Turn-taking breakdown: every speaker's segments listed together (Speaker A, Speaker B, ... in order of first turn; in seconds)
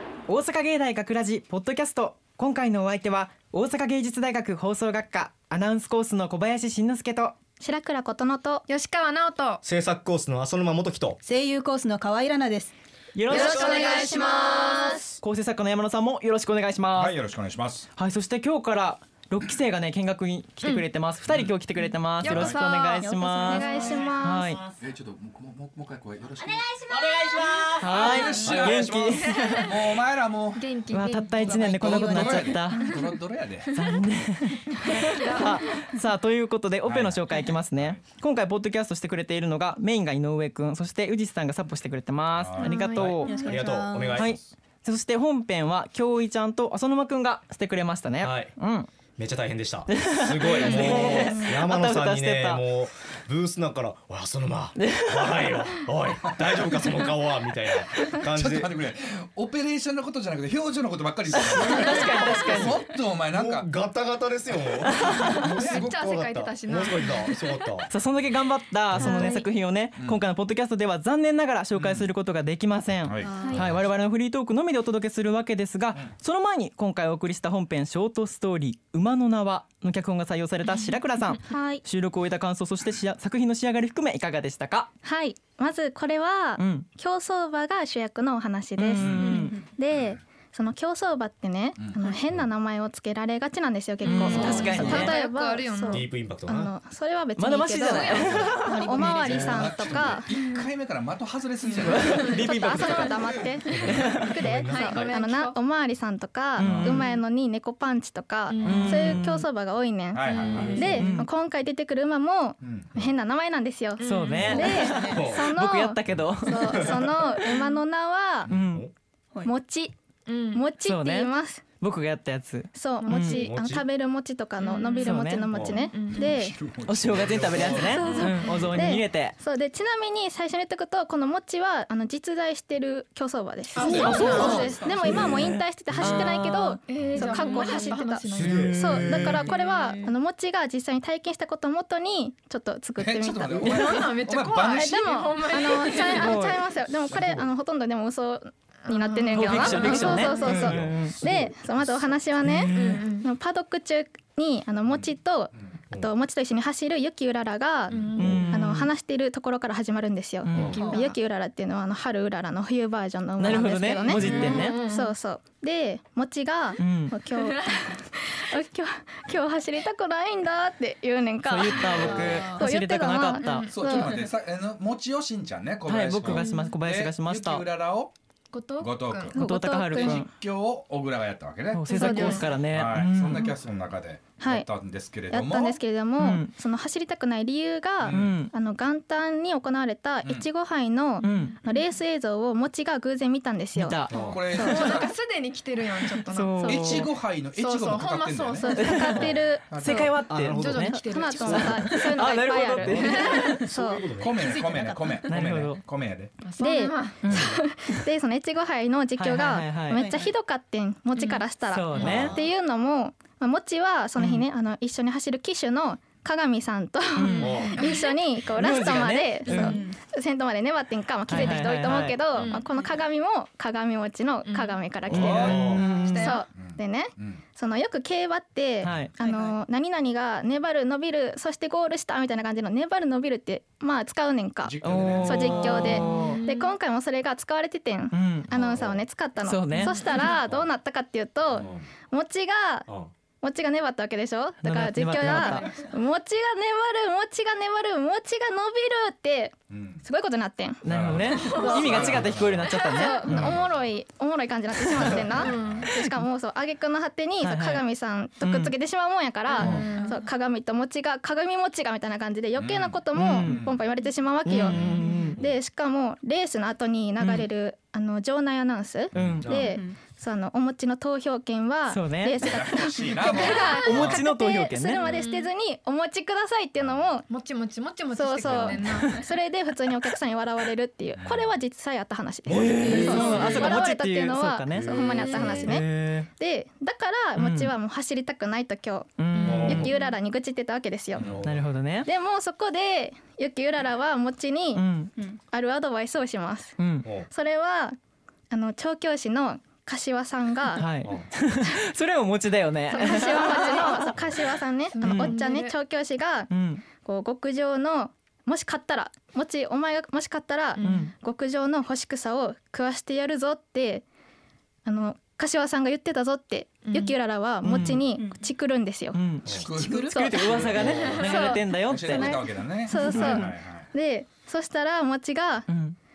Speaker A: 0.3-7.3, 13.2-13.8, 15.2-17.1, 18.0-24.6, 27.8-29.7, 30.9-33.0, 33.7-43.4, 44.2-48.9, 49.9-52.6, 54.8-55.6, 61.3-62.8, 64.9-65.4, 67.9-84.9, 86.6-86.9, 88.8-89.6, 94.1-95.2, 97.4-99.4, 101.8-103.2, 103.8-104.3, 106.6-107.1, 108.6-109.5, 110.5-111.3, 114.0-117.4, 118.5-118.9, 120.8-123.5, 125.0-125.5, 126.9-129.3, 133.9-137.9, 138.4-138.8, 146.0-146.6, 149.3-151.2, 152.4-153.0, 158.2-158.9, 160.4-160.8, 163.4-164.8, 166.8-167.2, 171.4-173.7, 175.9-177.7, 179.3-180.3, 181.7-183.6, 186.2-186.5, 188.1-188.5, 191.2-191.6, 193.7-195.1, 196.3-197.1, 198.8-203.6, 205.3-205.8, 207.2-208.0, 209.2-210.0, 211.7-212.3, 214.2-214.5, 217.2-217.5, 218.6-219.8, 221.3-222.2, 225.1-226.4, 228.8-229.1, 234.8-236.4, 238.1-238.5, 239.4-240.0, 244.6-245.7, 250.8-253.6, 257.4-257.9, 258.4-258.8, 263.1-263.6, 264.4-265.4, 267.2-267.5, 269.1-269.5, 271.9-272.4, 273.8-275.0, 282.5-286.3, 287.4-287.7, 289.2-289.9, 291.4-292.1, 294.7-295.1, 296.8-297.1, 300.8-304.2, 305.0-305.4, 306.5-306.8, 310.8-311.1, 317.6-318.1, 319.1-322.4, 323.1-323.4, 325.7-326.0
Speaker B: 7.6-8.6, 13.3-15.2, 23.4-24.6, 50.7-51.6, 81.5-81.8, 85.0-100.3, 102.4-118.5, 119.5-120.0, 120.5-121.6, 122.8-126.6, 127.8-144.0, 144.7-174.2, 179.3-180.2, 181.9-182.5, 184.4-184.7, 185.3-194.9, 198.6-200.1, 201.0-204.2, 206.6-242.9, 243.4-250.8, 251.4-277.3, 278.1-291.3, 292.1-294.8, 295.5-296.8, 297.3-298.0, 298.5-300.9, 302.9-314.1, 314.9-319.2, 320.1-320.5, 321.2-325.7
Speaker C: 8.7-9.6, 13.3-15.0, 20.6-20.9, 22.2-23.1, 27.8-29.8, 30.5-31.6, 32.7-33.1, 34.8-35.9, 42.6-43.6, 50.5-51.2, 61.8-62.1, 65.6-67.4, 69.0-69.5, 94.0-96.1, 101.6-105.6, 108.5-109.0, 110.2-111.2, 114.0-114.9, 120.3-120.7, 123.0-123.3, 124.6-125.2, 125.7-126.3, 128.1-128.5, 133.8-135.3, 136.9-140.0, 143.6-146.5, 148.9-150.7, 152.7-153.3, 157.9-158.4, 160.8-161.2, 164.3-165.1, 167.3-167.7, 173.4-174.2, 176.3-176.7, 178.5-179.3, 181.9-182.6, 194.1-199.3, 200.1-202.3, 203.2-203.6, 206.4-207.3, 211.2-211.4, 212.0-212.3, 217.2-218.1, 222.3-222.7, 224.5-226.4, 235.7-236.7, 239.7-240.4, 251.3-251.9, 255.4-255.9, 259.6-260.2, 273.3-273.8, 275.0-275.5, 277.3-279.2, 285.1-285.8, 289.4-289.8, 302.9-303.9, 304.9-305.7, 310.8-311.1, 316.9-317.1
Speaker D: 9.6-11.2, 26.9-29.3, 43.5-44.4, 48.2-48.5, 49.2-58.8, 61.6-62.8, 63.3-67.9, 68.9-69.3, 94.6-94.9, 95.9-96.7, 103.7-105.1, 114.4-115.6, 116.2-117.1, 118.5-118.9, 123.3-123.9, 125.5-125.8, 127.1-128.0, 133.8-136.2, 138.3-139.5, 150.3-152.5, 158.2-158.5, 160.5-160.8, 194.1-194.4, 199.1-199.4, 200.3-201.0, 202.6-204.4, 212.0-212.5, 217.4-217.8, 225.1-225.9, 238.5-239.0, 241.5-241.9, 269.4-269.7, 278.5-278.7, 282.5-283.7, 289.4-289.9, 291.2-291.5, 297.0-297.3, 304.1-304.4, 319.4-319.7, 320.7-321.2
Speaker E: 11.2-12.7, 13.4-14.9, 22.9-24.0, 31.5-32.8, 43.2-44.2, 73.2-73.6, 98.5-100.1, 114.8-115.2, 160.8-161.1, 164.2-164.6, 171.8-172.6, 204.3-205.3, 209.9-210.3, 219.5-220.0, 229.2-229.6, 259.5-260.2, 269.6-270.0, 319.7-320.2
Speaker F: 16.9-17.9, 21.3-21.5, 22.2-22.7, 24.8-26.9, 28.1-33.7, 36.9-38.0, 42.3-43.1, 44.1-44.5, 56.3-56.7, 58.0-63.7, 65.6-65.9, 70.0-70.2, 71.8-72.1, 73.0-73.8, 89.0-90.2, 91.8-92.5, 98.2-98.5, 99.2-103.4, 106.6-107.0, 108.5-109.3, 110.1-110.7, 112.6-113.1, 126.2-128.1, 143.0-146.0, 147.1-147.4, 149.7-150.1, 154.8-155.8, 164.1-164.5, 171.8-172.1, 173.7-178.1, 178.8-179.4, 180.0-185.8, 188.0-188.4, 190.2-190.5, 194.2-195.1, 196.6-200.2, 204.2-206.3, 226.5-227.4, 234.6-236.1, 249.7-250.1, 250.8-253.9, 254.9-256.0, 262.6-263.9, 264.7-265.1, 269.1-269.5, 272.3-274.2, 281.2-281.6, 283.5-283.8, 284.7-285.4, 291.2-291.5, 319.6-323.9